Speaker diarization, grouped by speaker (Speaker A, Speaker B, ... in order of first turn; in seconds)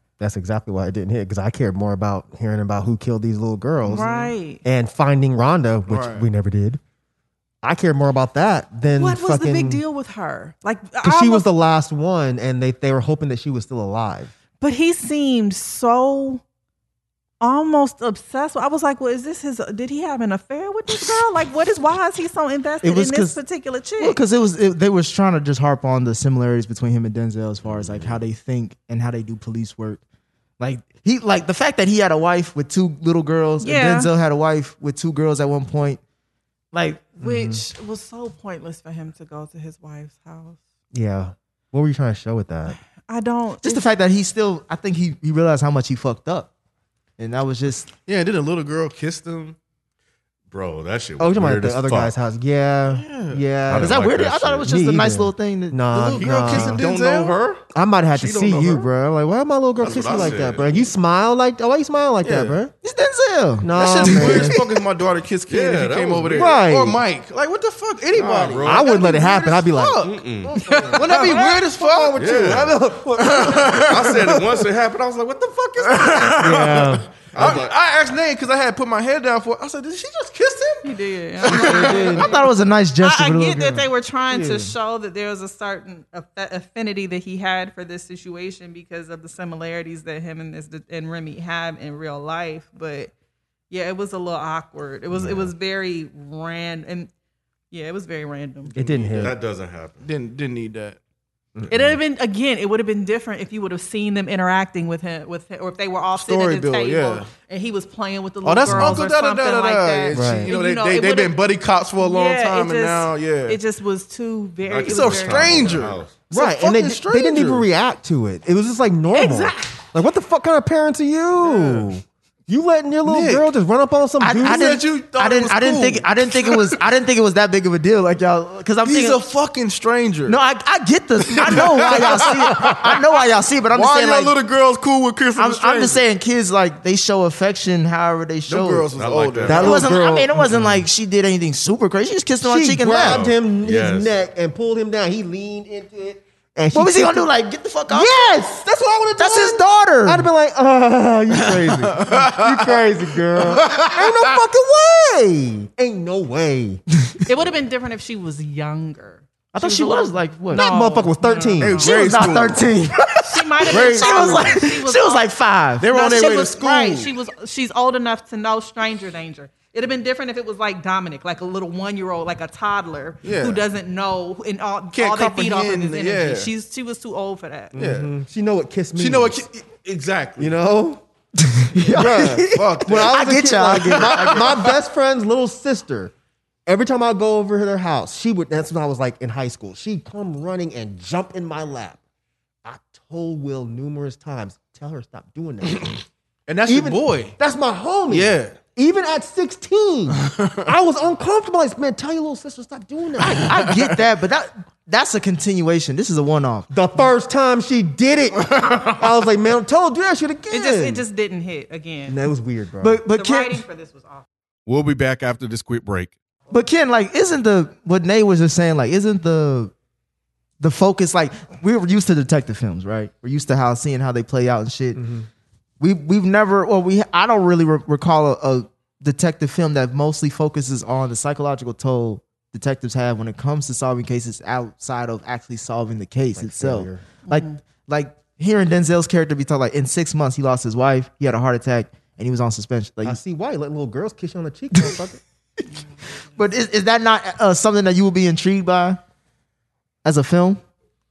Speaker A: 0.2-4.1, 4.6-6.8, 7.6-9.8, 11.0-14.3, 37.2-37.6, 40.9-42.8, 51.2-54.0, 54.6-56.8, 57.7-62.7, 63.6-64.6, 66.3-67.0, 68.6-74.4, 76.4-77.1, 81.5-82.3, 84.3-84.7, 95.1-95.5, 98.7-99.3, 101.5-102.0, 108.6-109.0, 110.1-110.5, 116.3-124.8, 131.8-132.7, 139.4-140.8, 142.4-147.3, 147.9-156.8, 160.5-161.8, 177.7-179.4, 180.4-181.0, 181.8-186.1, 186.7-192.0, 192.6-196.0, 196.7-203.5, 206.7-211.0, 212.1-213.0, 224.9-225.3, 236.3-237.1, 243.0-245.2
Speaker B: 3.9-4.6, 8.9-11.5, 14.6-16.4, 17.4-24.2, 33.6-34.1, 37.0-40.6, 43.1-43.8, 70.7-71.6, 80.8-93.1, 93.7-97.1, 97.7-98.7, 101.7-111.4, 112.0-115.8, 119.1-119.7, 157.2-162.3, 163.2-165.2, 165.9-177.7, 210.5-212.2, 213.1-214.2, 237.3-237.6
Speaker C: 3.9-4.3, 5.9-6.3, 48.0-49.6, 52.9-53.5, 56.0-57.4, 59.9-60.5, 62.2-62.6, 63.7-70.2, 70.9-74.4, 75.8-80.9, 81.4-82.3, 98.8-99.3, 100.0-101.0, 106.1-107.3, 108.4-113.6, 114.8-117.7, 121.4-121.9, 123.0-123.5, 124.4-126.8, 128.8-130.4, 131.3-133.0, 133.7-136.0, 138.5-139.9, 151.4-152.7, 153.4-154.4, 161.6-162.7, 163.7-164.4, 165.8-167.2, 173.2-173.6, 174.9-176.5, 177.8-178.1, 178.9-180.5, 182.4-183.2, 183.7-184.7, 195.8-197.4, 198.1-198.6, 200.2-200.7, 203.2-204.0, 208.4-209.0
Speaker D: 22.8-23.4, 24.0-30.0, 30.6-36.0, 36.7-37.0, 43.6-46.5, 47.2-47.9, 53.7-56.1, 62.8-64.5, 81.5-83.9, 124.2-129.2, 130.3-134.4, 135.3-138.9, 139.4-143.2, 146.7-148.4, 149.2-150.3, 159.5-160.7, 161.6-165.9, 181.4-184.4, 203.3-206.7, 212.8-213.6, 216.5-219.7, 220.6-225.0, 225.8-243.2, 246.3-249.0, 250.0-250.6
Speaker E: 27.6-28.2, 50.5-52.1, 53.7-54.7, 56.1-57.6, 58.1-58.9, 59.8-60.7, 65.5-66.6, 68.1-68.9, 70.0-70.5, 72.2-72.7, 73.7-77.7, 99.1-100.0, 114.7-116.2, 138.9-139.8, 142.9-144.1, 214.7-216.1